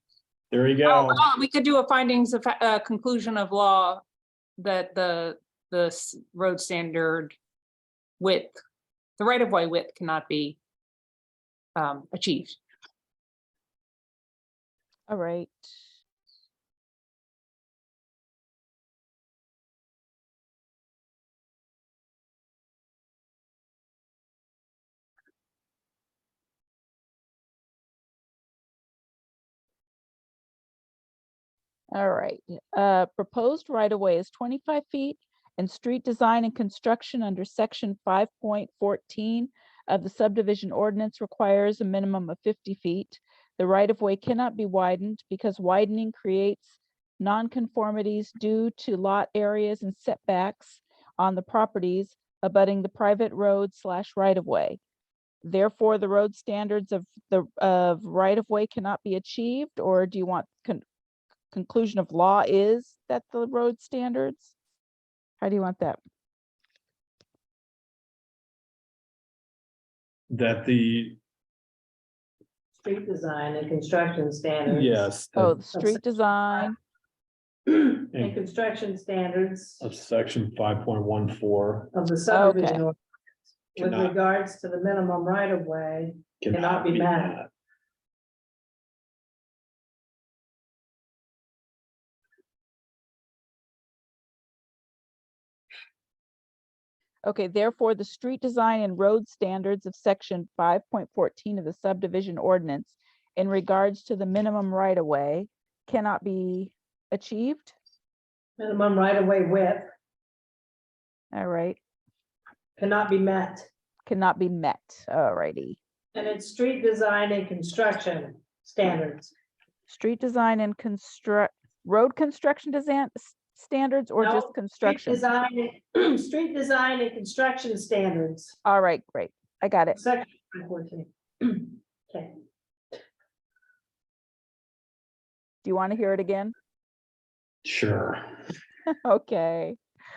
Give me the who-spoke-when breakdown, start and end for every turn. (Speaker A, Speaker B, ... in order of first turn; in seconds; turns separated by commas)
Speaker A: 0.5-1.3, Speaker B: 0.8-4.0, Speaker B: 4.6-7.3, Speaker B: 8.2-8.6, Speaker B: 9.2-10.6, Speaker B: 11.8-12.6, Speaker C: 15.1-15.7, Speaker C: 31.9-54.8, Speaker C: 55.4-60.8, Speaker C: 61.5-64.5, Speaker C: 65.4-66.0, Speaker A: 70.3-71.2, Speaker D: 72.8-75.1, Speaker A: 74.7-75.5, Speaker C: 75.4-76.8, Speaker D: 75.6-76.0, Speaker D: 77.7-79.9, Speaker A: 79.8-81.9, Speaker D: 81.9-83.0, Speaker C: 82.3-82.8, Speaker D: 83.8-87.4, Speaker A: 83.8-84.1, Speaker A: 86.4-87.5, Speaker C: 97.2-107.8, Speaker D: 108.6-109.8, Speaker C: 111.3-111.8, Speaker D: 112.8-113.7, Speaker C: 114.1-115.8, Speaker D: 116.2-119.3, Speaker C: 119.9-125.2, Speaker D: 124.2-128.6, Speaker C: 128.7-130.0, Speaker D: 129.9-132.3, Speaker C: 135.6-136.6, Speaker A: 137.7-138.3, Speaker C: 139.1-139.8